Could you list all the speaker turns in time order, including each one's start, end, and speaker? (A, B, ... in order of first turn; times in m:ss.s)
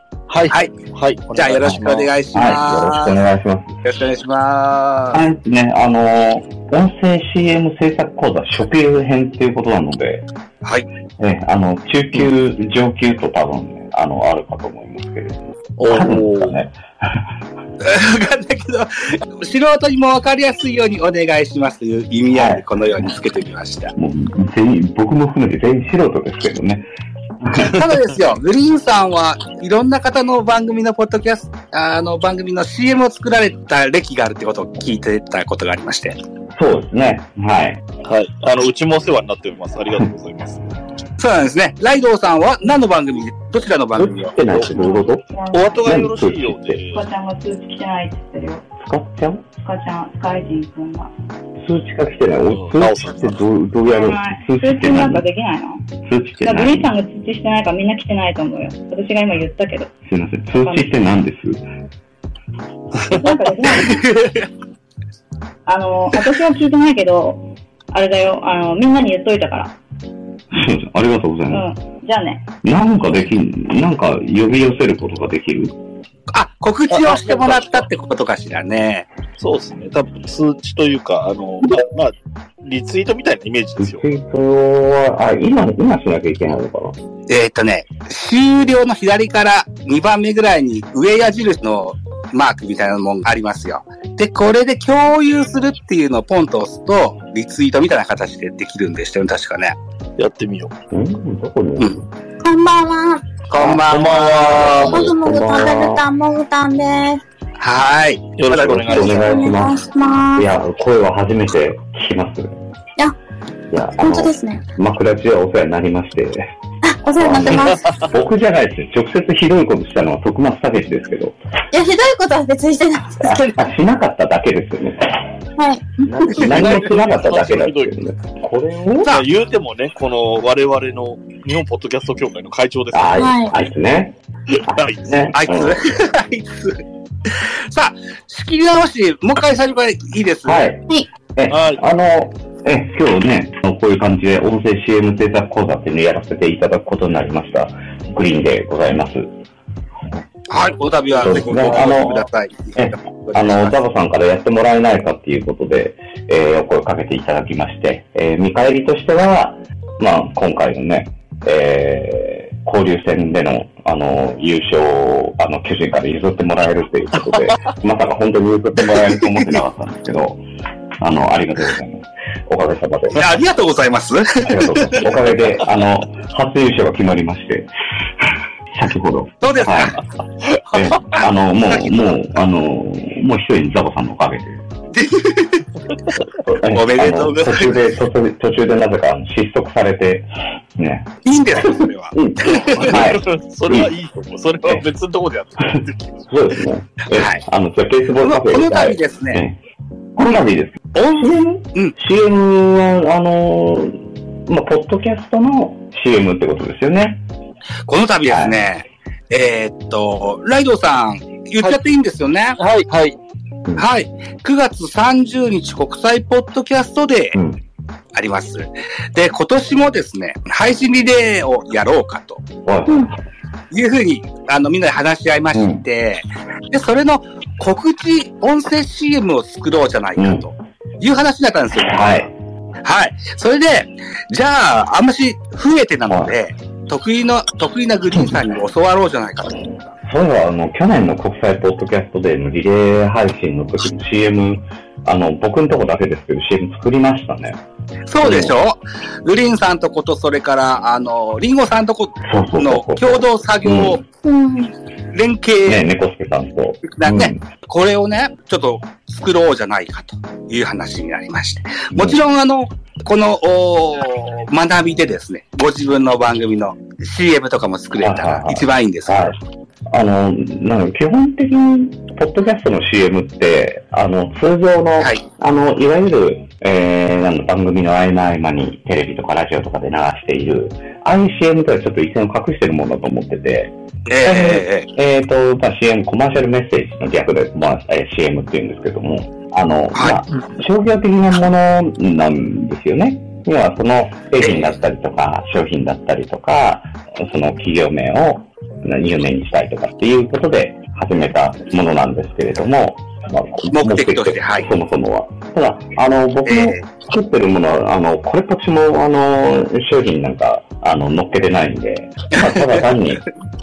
0:00.3-0:02.1 A
0:01.3-0:03.2 B
0:02.3-0:03.8 C
0:03.8-0:05.2 B
0:05.1-0:10.3 C
0:11.2-0:16.7 C
0:15.8-0:16.6 A
0:17.8-0:23.9 B
0:22.3-0:23.1 C
0:23.9-0:26.8 C
0:27.4-0:27.7 C
0:27.6-0:36.2 B
0:36.5-0:37.8 C
0:38.0-0:40.6 A
0:41.2-0:44.3 B
0:43.9-0:45.2 C
0:44.5-0:44.9 A
0:44.9-0:46.0 D
0:45.5-0:47.0 A
0:45.8-0:46.8 C
0:46.9-0:48.6 D
0:48.8-0:49.4 C
0:49.6-0:51.1 D
0:51.6-0:55.2 C
0:52.5-0:53.4 A
0:53.9-0:55.8 D
0:56.0-0:56.9 C
0:56.4-0:59.9 D
1:00.0-1:01.6 C
1:00.6-1:00.9 D
1:03.1-1:04.0 D
1:03.9-1:04.4 B
1:05.6-1:09.7 D
1:10.5-1:11.7 C
1:11.5-1:12.4 D
1:12.6-1:15.7 C
1:16.3-1:19.1 B
1:16.9-1:17.8 A
1:19.4-1:24.0 A
1:23.8-1:27.0 C
1:27.3-1:39.8 B
1:40.2-1:40.7 A
1:40.9-1:42.1 C
1:42.4-1:43.5 E
1:43.5-1:44.9 B
1:43.6-1:46.0 C
1:43.6-1:44.9 A
1:44.9-1:47.2 E
1:47.6-1:49.0 B
1:48.4-1:49.6 A
1:48.5-1:49.8 C
1:48.9-1:50.5 E
1:50.3-1:52.5 C
1:53.7-1:56.5 C
1:53.8-1:54.6 E
1:56.9-1:57.8 E
1:57.2-2:01.4 C
1:57.4-1:58.0 A
2:01.7-2:03.6 E
2:03.2-2:05.2 C
2:05.6-2:06.6 E
2:06.0-2:09.2 C
2:06.3-2:07.9 A
2:09.1-2:13.3 A
2:12.9-2:15.8 C
2:13.2-2:13.5 E
2:14.7-2:15.6 A
2:15.3-2:20.7 B
2:20.4-2:20.8 C
2:21.3-2:29.3 C
2:21.5-2:21.8 A
2:30.5-2:33.7 B
2:31.1-2:32.2 A
2:31.2-2:32.2 C
2:32.8-2:50.4 C
2:51.0-2:53.2 C
2:53.2-2:55.0 B
2:54.4-2:57.7 C
2:58.7-3:00.0 C
2:59.4-2:59.9 B
3:00.7-3:04.6 C
3:04.9-3:05.6 B
3:06.5-3:14.0 C
3:06.6-3:07.8 B
3:11.2-3:12.9 B
3:12.7-3:16.2 A
3:16.3-3:19.6 C
3:17.1-3:17.4 B
3:18.2-3:19.4 B
3:20.2-3:27.2 C
3:27.8-3:32.6 B
3:28.3-3:28.6 C
3:32.6-3:33.2 A
3:33.8-3:37.4 B
3:37.3-3:37.6 C
3:38.1-3:42.4 B
3:42.6-3:43.1 C
3:43.7-3:52.3 B
3:45.5-3:45.8 C
3:50.2-3:50.5 C
3:51.7-3:52.3 C
3:52.8-3:59.8 B
3:56.1-3:56.4 C
3:58.1-3:58.4 C
3:59.4-4:07.6 C
4:08.1-4:14.0 B
4:08.2-4:08.5 C
4:12.2-4:14.0 C
4:14.2-4:14.7 E
4:15.1-4:15.8 B
4:15.6-4:17.4 C
4:16.9-4:29.4 B
4:21.9-4:22.2 C
4:28.0-4:29.4 C
4:29.9-5:13.3 C
4:44.1-4:44.9 B
4:49.9-4:50.2 B
4:54.4-4:54.8 B
5:03.7-5:04.7 B
5:06.4-5:06.8 B